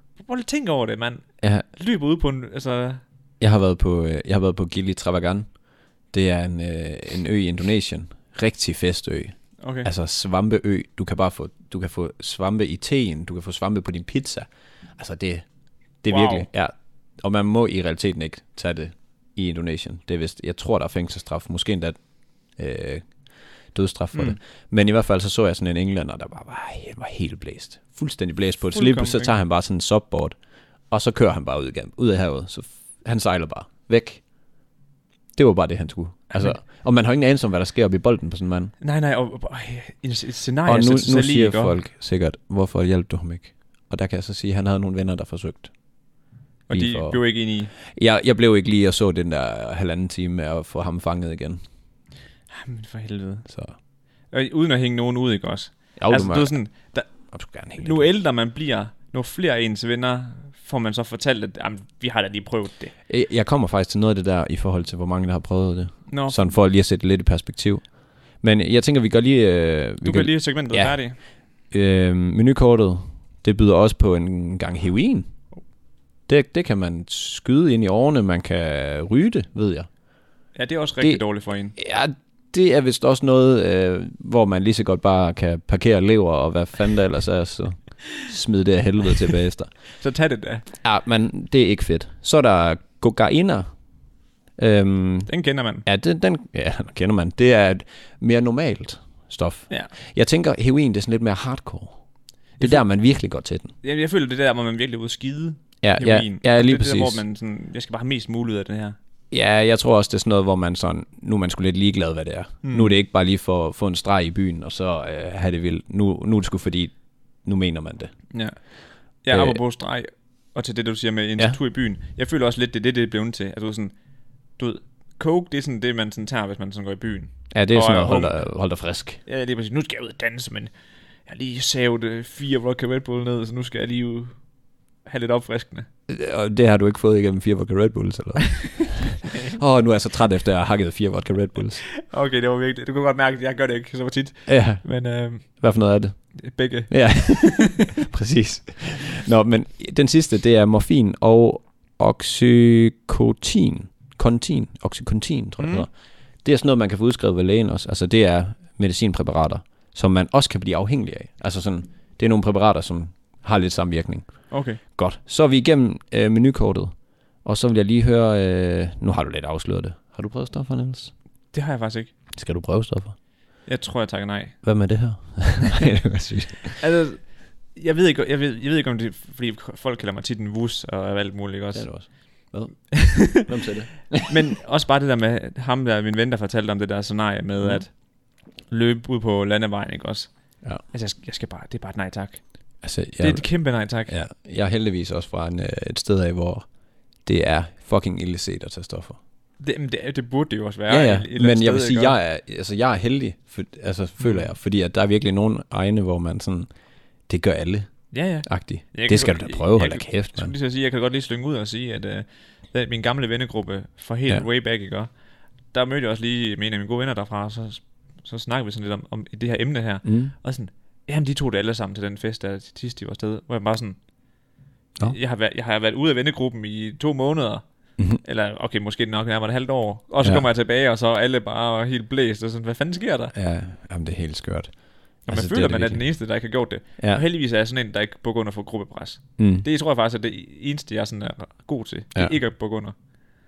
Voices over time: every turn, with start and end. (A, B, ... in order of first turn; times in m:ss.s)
0:00.2-0:03.0 A
0:03.4-0:05.5 B
0:06.1-0:15.4 B
0:09.6-0:09.9 A
0:16.0-0:22.0 B
0:16.1-0:16.5 A
0:22.6-0:23.1 B
0:23.7-0:30.4 B
0:28.7-0:29.3 A
0:30.9-0:34.2 B
0:35.4-0:38.7 B
0:38.8-0:41.8 A
0:40.7-0:45.7 B
0:46.7-0:47.7 A
0:46.7-0:47.2 B
0:47.8-0:51.6 B
0:52.5-0:53.5 A
0:53.5-0:53.8 B
0:54.3-0:57.1 A
0:56.0-0:56.5 B
0:57.3-0:58.1 B
0:57.8-1:02.9 A
1:03.1-1:07.8 B
1:06.1-1:06.5 A
1:08.4-1:11.0 B
1:10.0-1:11.2 A
1:11.7-1:15.3 B
1:16.3-1:19.9 B
1:20.6-1:21.8 A
1:21.8-1:29.7 B
1:30.0-1:30.6 A
1:30.8-1:33.7 B
1:34.6-1:35.3 B
1:35.3-1:35.8 A
1:35.8-1:42.0 B
1:42.6-1:42.8 A
1:42.6-1:43.7 B
1:43.8-1:49.0 A
1:45.8-1:47.2 B
1:49.3-1:56.9 B
1:52.6-1:52.9 A
1:57.4-1:58.1 B
1:59.2-2:03.9 A
1:59.3-1:59.6 B
2:04.6-2:08.4 A
2:07.5-2:09.2 B
2:09.3-2:10.7 A
2:11.3-2:14.4 A
2:15.0-2:15.9 A
2:16.1-2:21.9 B
2:22.0-2:25.5 A
2:24.5-2:24.8 B
2:25.4-2:26.2 B
2:26.4-2:28.0 A
2:26.9-2:35.9 B
2:35.6-2:35.9 A
2:36.4-2:46.9 B
2:44.5-2:44.8 A
2:47.4-2:51.1 B
2:51.5-2:52.1 A
2:52.3-2:53.2 B
2:53.7-2:54.6 A
2:54.6-2:56.8 B
2:56.8-3:01.9 A
3:01.7-3:04.4 B
3:02.9-3:03.5 A
3:04.3-3:07.9 A
3:08.7-3:10.3 A
3:10.9-3:12.4 A
3:12.8-3:13.5 B
3:13.2-3:14.1 A
3:14.1-3:16.7 B
3:17.3-3:19.2 B
3:19.6-3:22.2 A
3:20.9-3:26.7 B
3:24.2-3:24.5 A
3:27.3-3:27.9 B
3:28.1-3:35.1 A
3:28.4-3:30.5 B
3:35.7-3:44.0 A
3:40.0-3:40.3 B
3:45.0-3:47.6 A
3:48.2-3:53.3 A
3:53.3-3:54.8 B
3:55.3-3:56.0 B
3:55.3-4:03.0 A
3:59.4-3:59.6 B